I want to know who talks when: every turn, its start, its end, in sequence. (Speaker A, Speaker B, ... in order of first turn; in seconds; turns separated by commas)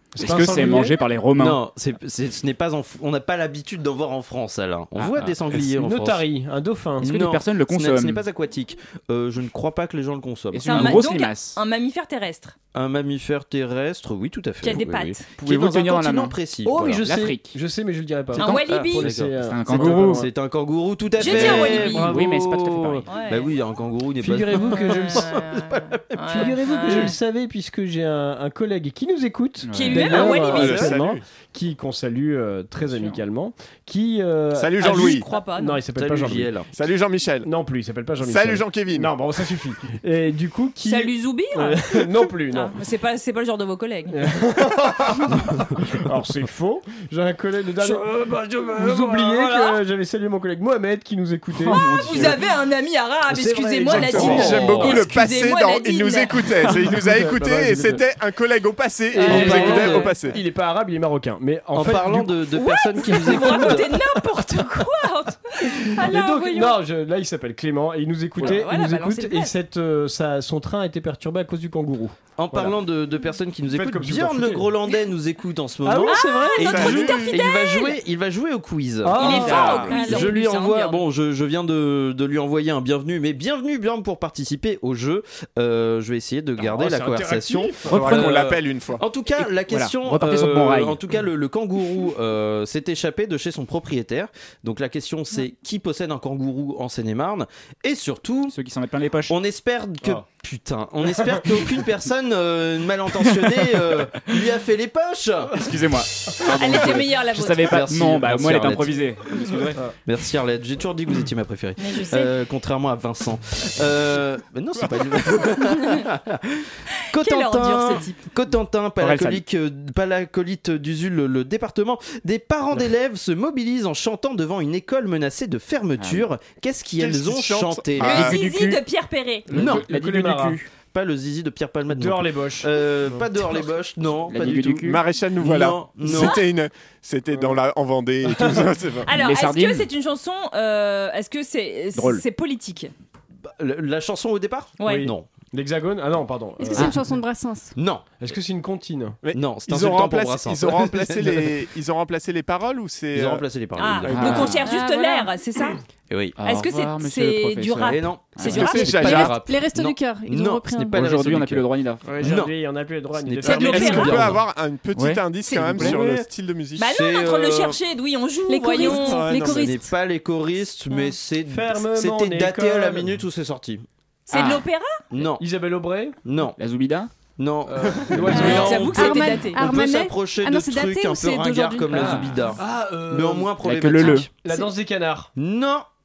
Speaker A: 0.1-1.0, Speaker B: 0.2-1.6, Speaker C: 1.4-6.2, Speaker B: 5.0-5.5, Speaker A: 5.5-7.1, Speaker C: 7.0-11.1, Speaker B: 7.0-8.2, Speaker B: 10.5-11.6, Speaker D: 10.6-12.6, Speaker C: 12.7-17.1, Speaker D: 14.6-15.3, Speaker B: 15.4-16.4, Speaker A: 16.6-20.3, Speaker B: 16.9-17.6, Speaker B: 18.3-20.2, Speaker D: 18.4-19.1, Speaker C: 18.4-26.9, Speaker D: 21.2-22.2, Speaker B: 21.3-23.1, Speaker D: 23.1-23.5, Speaker A: 24.2-25.4, Speaker D: 24.5-27.2, Speaker A: 26.3-36.5, Speaker B: 29.6-30.1, Speaker D: 29.7-30.9, Speaker E: 30.1-31.2, Speaker C: 30.4-30.9, Speaker B: 32.8-33.2, Speaker E: 34.5-35.3, Speaker D: 34.8-35.8, Speaker C: 36.0-36.7, Speaker E: 36.7-37.5, Speaker A: 37.4-42.8, Speaker E: 38.2-39.1, Speaker D: 40.8-44.3, Speaker A: 44.1-52.2, Speaker D: 48.8-49.8, Speaker B: 51.6-52.4, Speaker D: 51.7-56.8, Speaker A: 53.3-55.0, Speaker C: 53.9-55.0, Speaker E: 53.9-60.4, Speaker A: 56.8-58.0, Speaker A: 59.1-62.5, Speaker D: 59.2-60.1, Speaker C: 59.2-60.1, Speaker C: 61.7-64.0, Speaker D: 62.5-66.8, Speaker A: 63.0-64.0, Speaker A: 65.8-72.8, Speaker D: 68.4-69.5, Speaker C: 72.4-98.5, Speaker A: 73.7-74.7, Speaker A: 75.8-76.8, Speaker D: 76.1-78.0, Speaker E: 76.6-77.4, Speaker A: 79.0-80.2, Speaker D: 79.2-81.0, Speaker B: 79.2-80.2, Speaker A: 86.6-88.1, Speaker E: 87.9-89.0, Speaker B: 88.0-88.4, Speaker B: 89.4-91.0, Speaker B: 98.5-99.4, Speaker C: 99.3-105.6, Speaker B: 105.5-109.8, Speaker D: 106.5-107.9, Speaker C: 106.8-107.0, Speaker C: 107.5-109.0, Speaker C: 110.0-128.4, Speaker D: 111.8-112.3, Speaker D: 117.1-118.2, Speaker B: 119.0-119.4, Speaker B: 126.0-126.3, Speaker E: 127.0-128.4, Speaker D: 128.0-129.5, Speaker B: 128.4-128.8, Speaker A: 129.5-130.6, Speaker C: 129.5-134.8, Speaker B: 129.6-130.0, Speaker A: 131.9-133.3, Speaker B: 134.3-135.0, Speaker E: 134.8-139.1, Speaker C: 135.4-136.4, Speaker D: 136.2-136.4, Speaker A: 137.3-137.6, Speaker A: 138.3-138.7, Speaker D: 139.1-142.9, Speaker B: 139.1-139.9, Speaker B: 141.9-142.2, Speaker C: 143.4-145.3, Speaker D: 144.8-145.1, Speaker A: 144.8-147.0, Speaker F: 146.6-147.8, Speaker C: 147.8-148.2, Speaker A: 148.2-149.2, Speaker E: 149.2-153.5, Speaker C: 149.3-151.5, Speaker C: 153.1-154.6, Speaker D: 153.8-155.8, Speaker E: 154.1-154.4, Speaker B: 154.1-154.7, Speaker F: 154.6-155.3, Speaker C: 156.1-156.4, Speaker B: 156.4-159.3, Speaker D: 156.4-158.9, Speaker C: 157.8-161.7, Speaker E: 158.4-159.3, Speaker F: 158.7-161.1, Speaker B: 160.9-162.1, Speaker A: 162.0-164.2, Speaker C: 162.2-162.6, Speaker C: 163.2-164.4, Speaker D: 163.4-164.3, Speaker E: 163.5-166.9, Speaker B: 164.9-166.0, Speaker C: 165.6-166.3, Speaker D: 166.8-169.4, Speaker C: 166.8-167.8, Speaker F: 168.5-169.9, Speaker E: 168.8-169.8, Speaker C: 169.4-173.9, Speaker A: 171.5-173.1, Speaker D: 174.3-175.0, Speaker B: 174.3-174.7, Speaker C: 175.1-175.4, Speaker A: 175.4-176.2, Speaker C: 176.2-176.6, Speaker B: 176.6-177.1, Speaker C: 177.4-184.3, Speaker A: 177.7-179.0, Speaker D: 178.3-179.6, Speaker F: 178.3-182.3, Speaker B: 181.9-182.4, Speaker A: 182.1-185.3, Speaker B: 183.6-184.3, Speaker C: 185.4-185.9